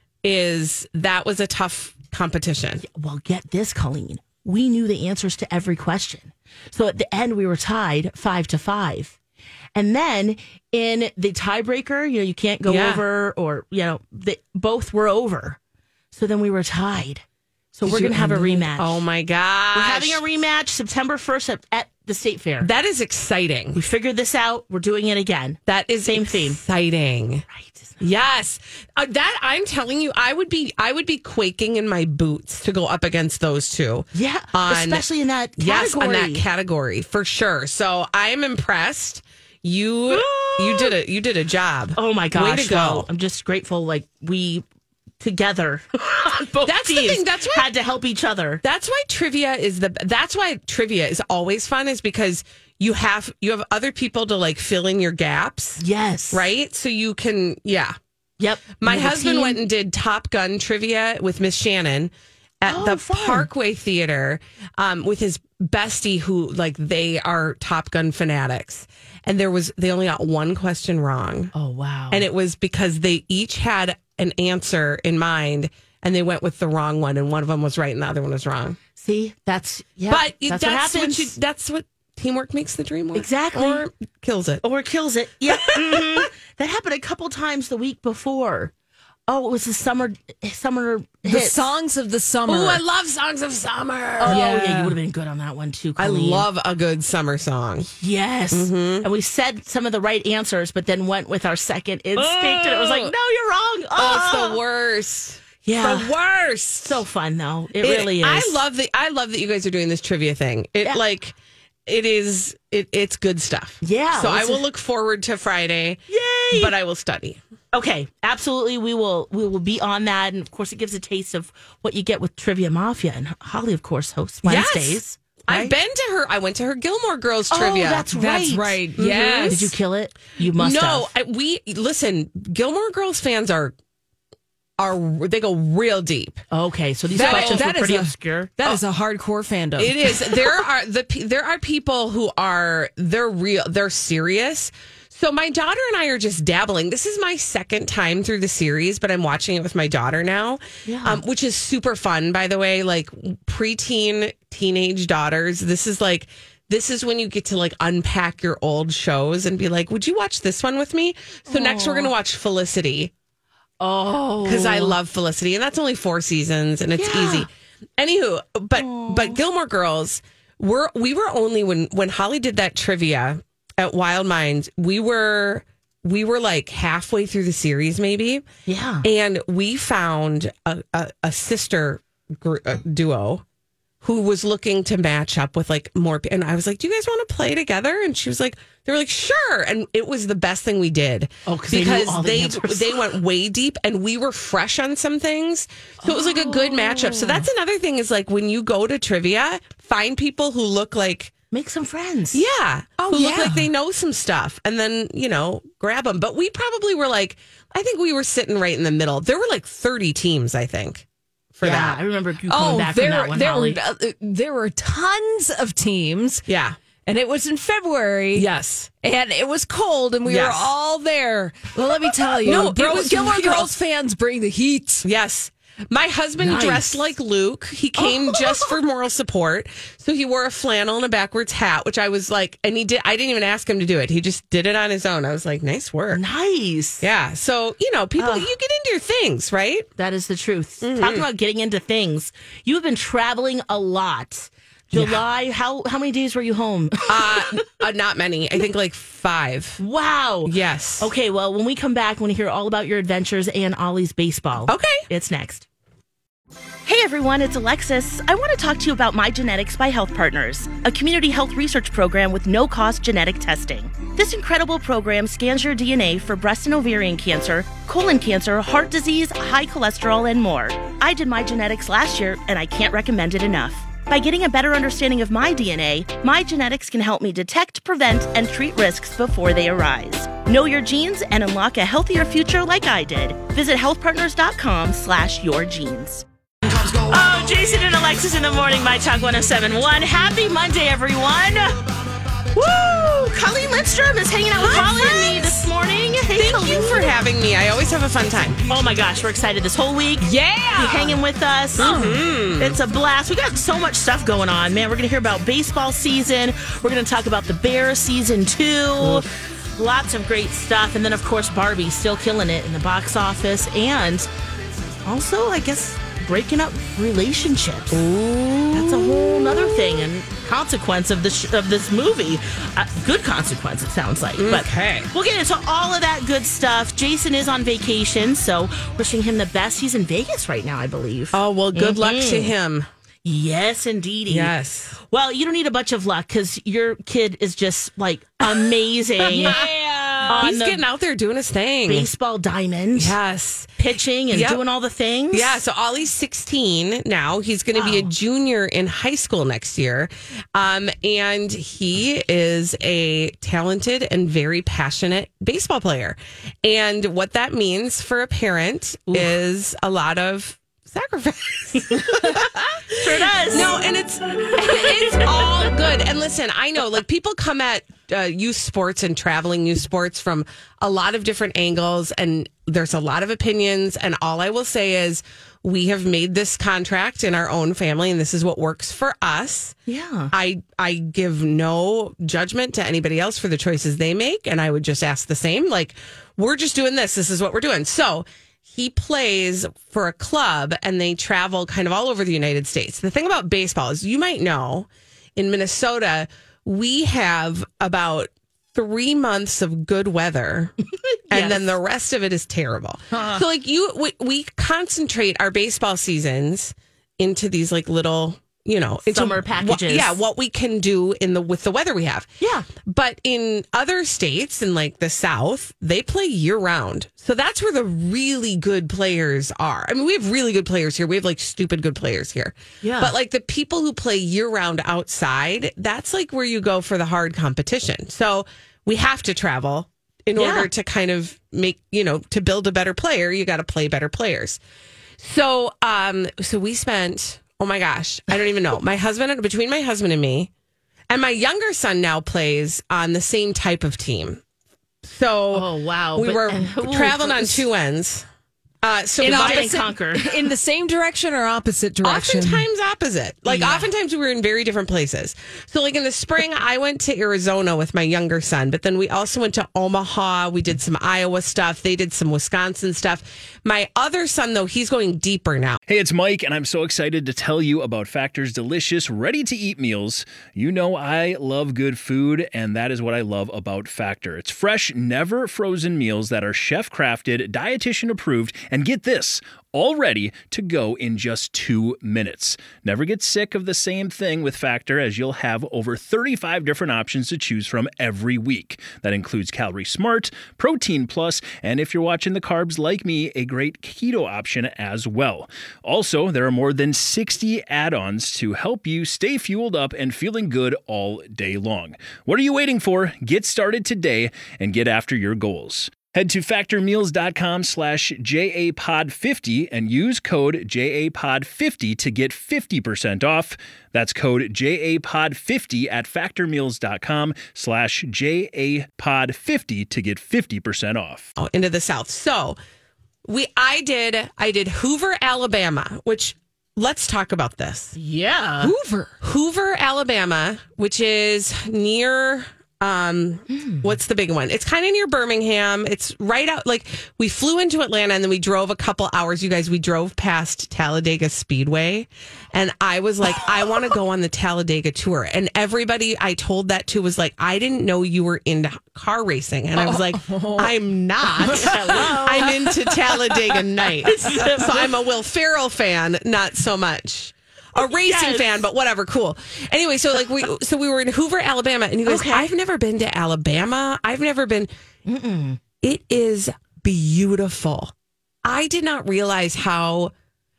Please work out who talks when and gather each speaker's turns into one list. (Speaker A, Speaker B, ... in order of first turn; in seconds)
Speaker A: 0.2-2.8, 12.6-13.0, 17.8-20.2, 22.6-23.8, 25.6-27.4, 28.0-35.0, 35.6-43.1, 46.6-47.7, 48.6-58.0, 58.8-71.5, 72.1-78.8, 80.1-84.6, 85.5-86.2, 92.5-94.4, 96.0-97.9, 98.5-99.1, 102.2-103.1, 104.0-107.0, 107.8-117.4, 124.4-128.1, 128.9-129.6, 130.5-133.7, 134.8-136.4, 137.2-137.7, 139.8-163.1, 164.4-178.4, 179.0-183.4, 184.0-201.3, 202.3-212.0, 216.5-216.8, 218.3-218.9, 220.2-220.7, 222.4-223.7, 225.0-236.2, 237.0-239.9, 240.8-241.3, 244.9-245.2, 247.1-249.8, 250.4-251.1, 254.7-255.0, 294.5-295.6, 296.3-298.6, 301.8-302.8, 317.9-320.1, 324.4-325.1, 331.3-332.9, 334.3-334.9, 339.3-339.6, 340.4-342.1, 342.9-344.6, 345.3-379.8, 380.3-400.7, 401.3-412.3, 412.8-434.6, 435.2-440.5, 441.1-444.4, 445.0-448.2, 448.8-449.8, 452.0-465.8, 521.4-522.6, 523.2-528.0, 529.2-564.7, 565.8-567.9, 568.4-570.1
Speaker B: 2.8-9.2, 9.7-15.6, 16.1-17.2, 17.7-19.0, 19.7-22.7, 23.7-26.6, 27.5-28.0, 34.1-36.4, 40.1-41.0, 42.0-44.6, 45.2-48.6, 55.8-56.5, 58.4-59.6, 62.6-63.5, 71.5-72.2, 79.0-81.3, 83.1-83.8, 84.6-88.7, 89.3-91.6, 94.2-96.5, 98.0-104.6, 105.6-106.1, 106.8-108.6, 113.8-114.6, 116.1-116.7, 117.7-125.7, 127.5-128.8, 129.4-131.1, 136.5-138.5, 150.8-151.2, 161.5-162.1, 163.8-165.0, 166.9-167.5, 168.8-169.4, 178.7-179.1, 191.4-193.1, 201.5-202.4, 211.6-213.8, 226.4-227.1, 228.0-228.7, 236.1-237.1, 238.2-238.5, 240.0-247.5, 249.8-255.7, 256.8-286.2, 286.9-291.8, 292.5-297.1, 298.7-314.3, 315.0-318.0, 318.7-332.5, 333.2-334.5, 335.0-339.6, 340.2-340.8, 341.9-343.1, 343.8-345.6, 347.7-348.1, 361.8-362.4, 362.9-363.8, 364.4-365.4, 379.9-380.3, 401.1-401.7, 409.0-410.2, 412.4-412.7, 422.8-423.1, 430.3-430.7, 445.5-447.6, 449.2-450.5, 453.4-453.9, 528.0-528.7, 533.5-533.8, 551.4-552.6, 554.1-554.8, 557.9-558.6, 562.0-562.5, 565.0-565.6
Speaker C: 91.2-92.8, 94.3-95.0, 102.5-103.0, 128.1-129.7, 137.1-140.4, 196.1-197.4, 203.1-203.7, 212.5-216.4, 217.1-218.5, 219.0-225.1, 300.2-301.2, 301.8-302.2, 339.3-340.5, 449.2-452.6, 528.6-529.1, 549.8-550.7, 551.4-553.6
Speaker D: 465.9-521.3